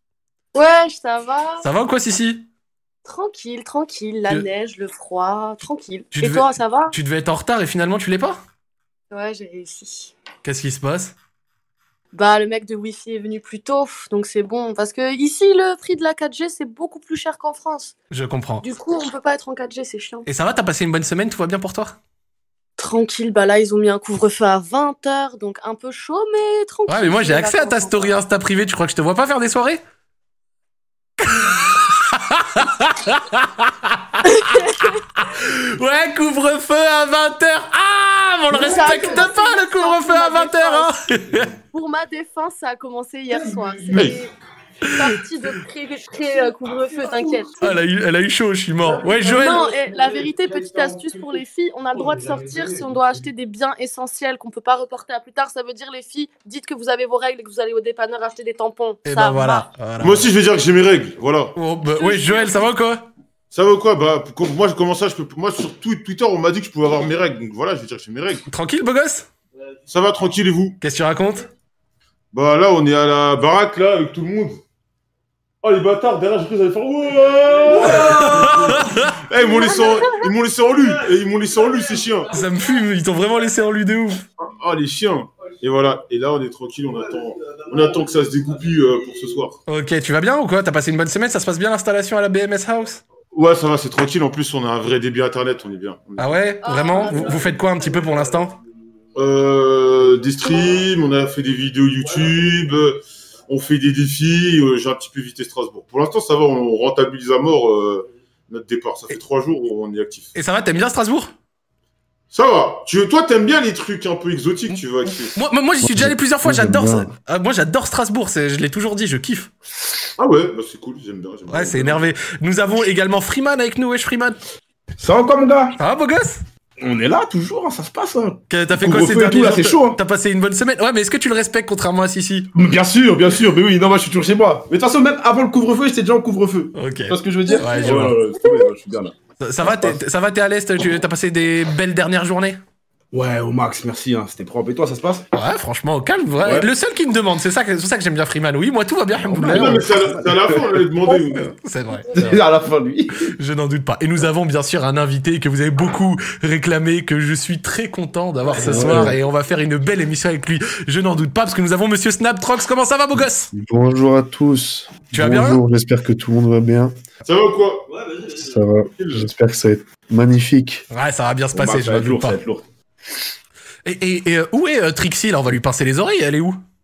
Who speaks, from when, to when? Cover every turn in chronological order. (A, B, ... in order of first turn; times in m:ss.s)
0:00.5-0:01.7 A
0:01.6-0:02.5 B
0:03.0-0:06.9 A
0:06.1-0:08.4 B
0:09.1-0:10.1 A
0:10.4-0:11.2 B
0:12.1-0:18.0 A
0:18.1-0:18.6 B
0:18.6-0:20.3 A
0:20.3-0:22.0 B
0:22.8-0:28.1 A
0:26.9-0:29.8 B
0:31.2-0:41.5 B
0:34.3-0:34.6 A
0:38.5-0:40.9 A
0:41.7-0:44.3 A
0:43.9-0:44.2 C
0:44.8-0:47.6 A
0:47.6-0:49.6 B
0:49.3-0:59.6 A
0:59.0-1:00.3 B
1:00.0-1:01.6 C
1:01.6-1:03.0 B
1:01.9-1:02.7 A
1:03.5-1:08.5 C
1:08.5-1:09.3 B
1:09.9-1:10.8 C
1:10.8-1:11.5 B
1:12.3-1:14.6 C
1:15.6-1:22.3 C
1:17.8-1:19.2 B
1:22.3-1:24.2 B
1:24.4-1:29.6 C
1:29.7-1:33.0 B
1:33.3-1:36.4 C
1:36.2-1:38.6 B
1:36.6-1:37.3 A
1:39.2-1:50.4 C
1:50.4-1:51.3 B
1:52.3-1:55.4 C
1:55.4-1:59.5 B
1:55.8-1:57.1 D
2:00.2-2:02.0 C
2:01.5-2:04.4 B
2:05.0-2:05.8 E
2:05.8-2:06.4 B
2:06.8-2:10.0 E
2:08.5-2:12.5 B
2:12.6-2:20.0 E
2:16.8-2:18.2 B
2:17.6-2:17.9 A
2:19.4-2:22.6 B
2:23.1-2:25.3 E
2:25.3-2:29.8 B
2:26.4-2:26.7 E
2:29.2-2:30.9 E
2:29.5-2:31.5 C
2:31.3-2:32.4 B
2:32.1-2:33.3 E
2:33.3-2:43.5 B
2:38.5-2:39.2 E
2:38.7-2:39.1 D
2:43.5-2:47.0 D
2:45.1-2:45.6 B
2:47.2-2:47.9 C
2:48.3-2:50.8 D
2:49.0-2:49.2 C
2:50.9-2:52.4 B
2:51.5-2:52.6 E
2:53.8-2:56.6 B